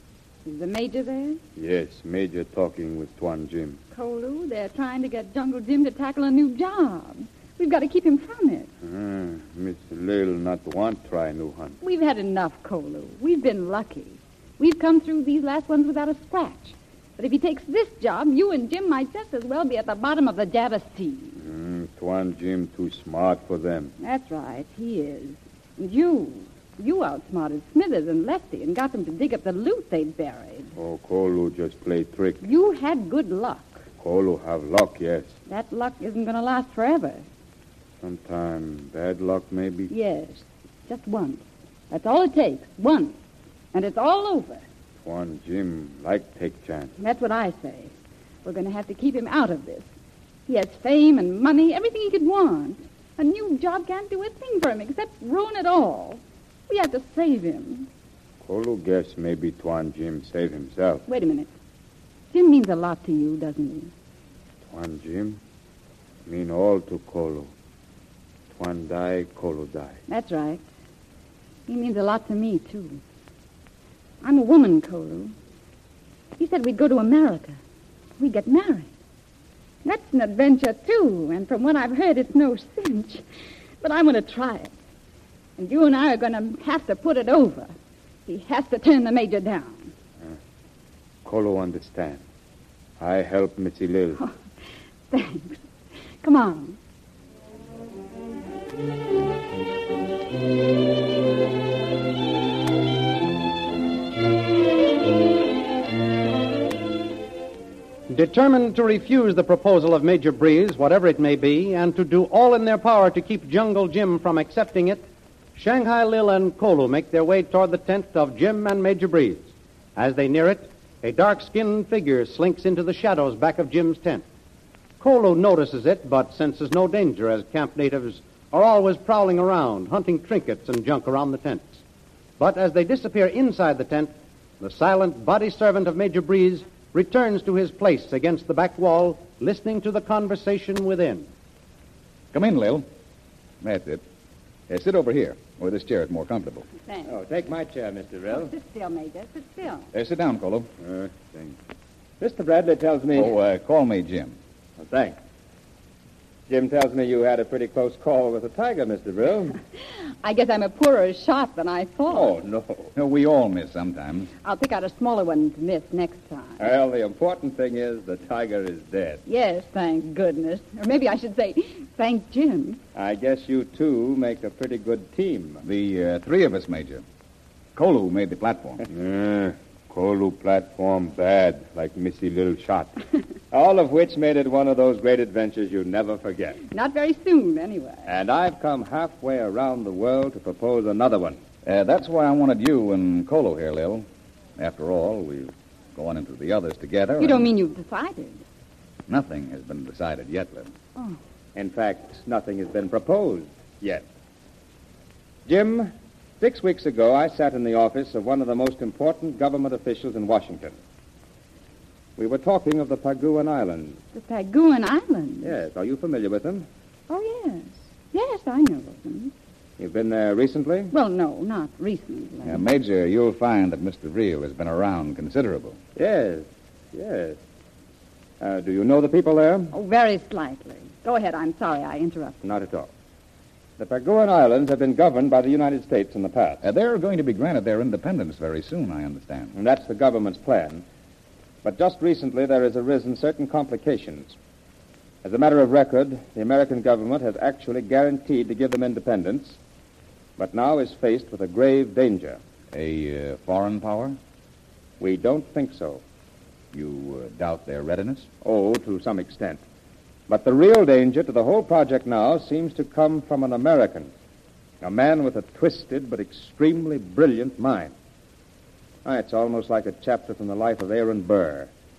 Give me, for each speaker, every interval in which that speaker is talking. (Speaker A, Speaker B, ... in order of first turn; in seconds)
Speaker A: 0.5-1.4, 3.9-8.7, 11.8-21.4, 24.0-30.8, 32.4-33.9, 35.5-37.2, 39.9-43.1, 43.7-44.6, 47.0-47.9, 48.5-49.9, 50.5-57.9, 61.1-61.5, 62.3-63.9, 70.1-70.7, 71.7-73.0, 74.2-75.3, 76.4-77.6, 78.2-78.9, 79.8-83.2, 83.8-84.7, 85.6-87.7, 88.3-89.9, 95.1-95.7, 96.2-96.8, 146.8-147.2, 148.3-149.9, 159.8-162.4, 164.4-166.6, 169.3-172.8, 186.7-188.2, 197.2-198.4, 214.1-215.6, 217.1-219.3, 220.9-222.7, 229.7-232.4
Speaker B: 1.6-3.8, 8.8-11.8, 21.4-23.9, 30.8-32.5, 34.0-35.3, 38.0-39.9, 45.0-46.9, 58.4-61.0, 64.7-65.4, 66.3-67.5, 68.5-70.0, 91.2-92.2, 93.0-94.2, 150.8-151.6, 178.9-183.0
Speaker C: 108.1-124.2, 125.0-131.8, 132.4-141.3
Speaker D: 142.3-142.8, 143.6-144.0, 144.7-146.7, 149.9-150.7, 153.1-154.4, 162.9-164.3, 175.6-177.0, 177.8-178.9, 191.7-194.1, 194.6-197.5, 199.1-200.7, 222.4-225.8, 236.6-239.5, 252.7-254.2, 256.7-258.3
Speaker E: 147.1-148.5, 152.2-153.3, 154.8-155.2, 156.5-159.6, 162.1-162.9, 166.6-169.2, 172.9-175.6, 183.5-186.6, 188.1-191.4, 201.6-204.1, 205.5-210.8, 212.2-214.0, 215.4-216.7, 219.8-220.9, 226.0-227.4, 228.4-229.8, 232.4-232.9, 233.8-236.6, 239.5-240.8, 241.6-244.4, 245.2-249.6, 250.4-252.4, 255.0-256.0, 258.4-259.6, 260.3-264.1, 264.8-267.9, 269.1-271.7